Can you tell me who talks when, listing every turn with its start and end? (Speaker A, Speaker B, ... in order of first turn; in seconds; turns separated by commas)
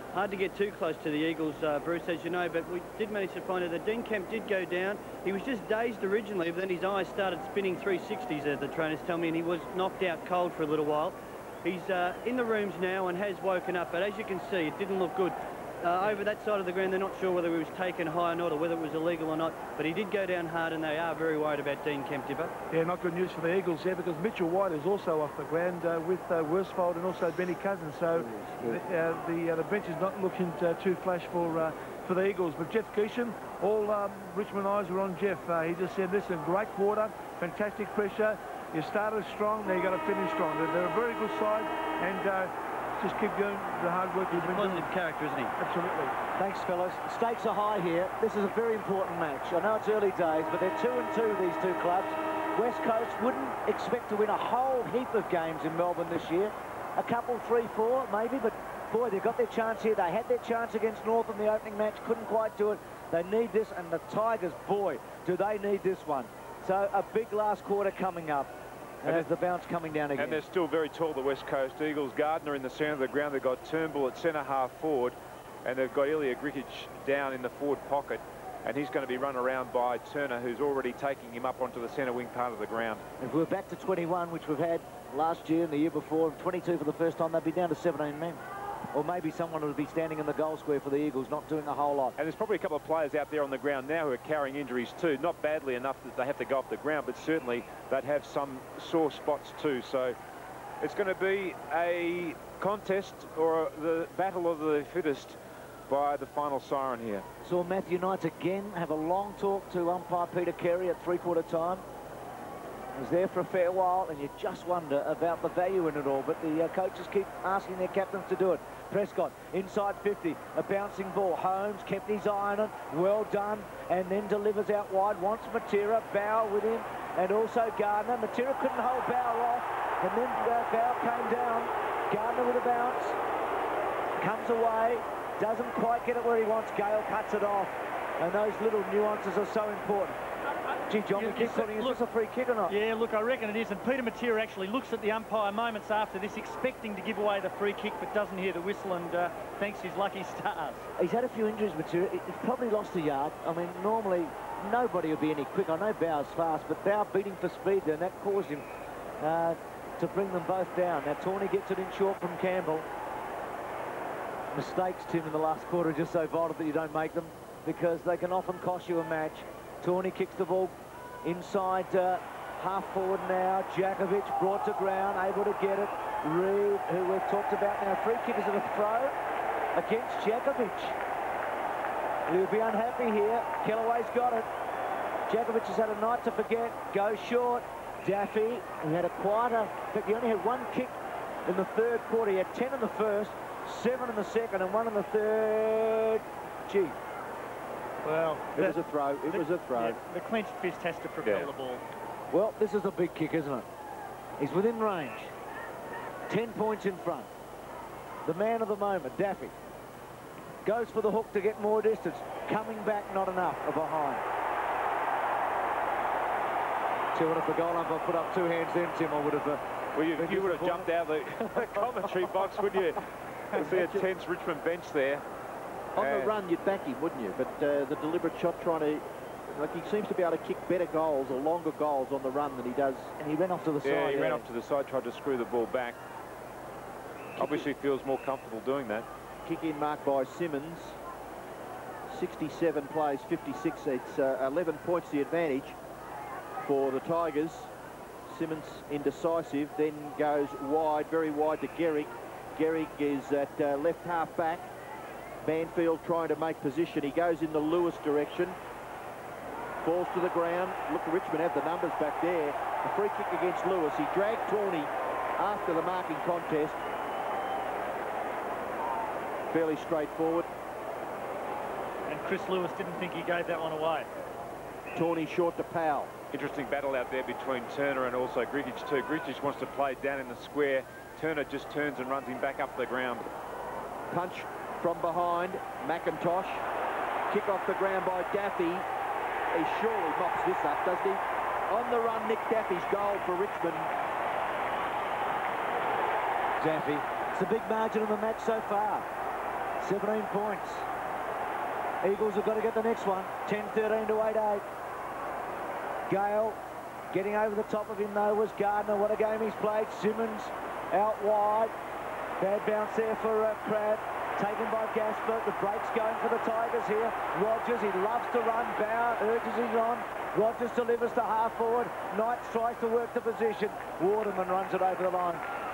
Speaker A: 0.1-22.5, Speaker B: 22.7-44.9, Speaker A: 44.3-45.5, Speaker B: 45.6-46.1, Speaker C: 46.4-70.4, Speaker D: 70.2-83.0, Speaker C: 83.2-88.4, Speaker C: 88.9-92.1, Speaker D: 92.2-100.2, Speaker D: 100.8-105.4, Speaker D: 105.9-107.2, Speaker C: 107.4-111.8, Speaker C: 112.9-133.2, Speaker C: 134.2-140.2, Speaker C: 140.9-142.7, Speaker E: 141.1-142.0, Speaker E: 142.7-150.9, Speaker C: 151.0-158.6, Speaker C: 159.2-162.9, Speaker C: 164.5-179.1, Speaker C: 179.7-180.9, Speaker C: 182.3-184.4, Speaker C: 185.3-190.9, Speaker C: 191.4-197.0, Speaker E: 198.0-201.8, Speaker F: 198.5-200.0, Speaker D: 201.2-201.5, Speaker C: 202.3-203.7, Speaker C: 204.4-205.3, Speaker C: 206.3-207.3, Speaker C: 208.2-209.5, Speaker C: 210.6-214.2, Speaker C: 217.1-219.6, Speaker D: 219.9-225.2, Speaker C: 220.2-220.9, Speaker C: 221.4-222.1, Speaker F: 223.5-224.1, Speaker F: 225.9-233.1, Speaker D: 226.0-226.3, Speaker C: 233.2-234.4, Speaker D: 233.8-236.0, Speaker F: 237.3-237.7, Speaker D: 237.4-239.1, Speaker F: 239.4-241.0, Speaker F: 242.1-245.8, Speaker F: 246.6-247.7, Speaker F: 248.3-254.7, Speaker F: 255.4-258.6, Speaker F: 259.8-266.8, Speaker F: 269.5-270.5, Speaker E: 272.1-274.1, Speaker F: 274.9-276.1, Speaker D: 276.3-283.3, Speaker F: 284.1-286.6, Speaker F: 287.3-288.9, Speaker F: 289.5-293.9, Speaker C: 296.6-299.1, Speaker C: 299.8-300.9, Speaker C: 302.0-304.6, Speaker C: 306.1-306.6, Speaker C: 307.1-311.7, Speaker C: 312.4-325.4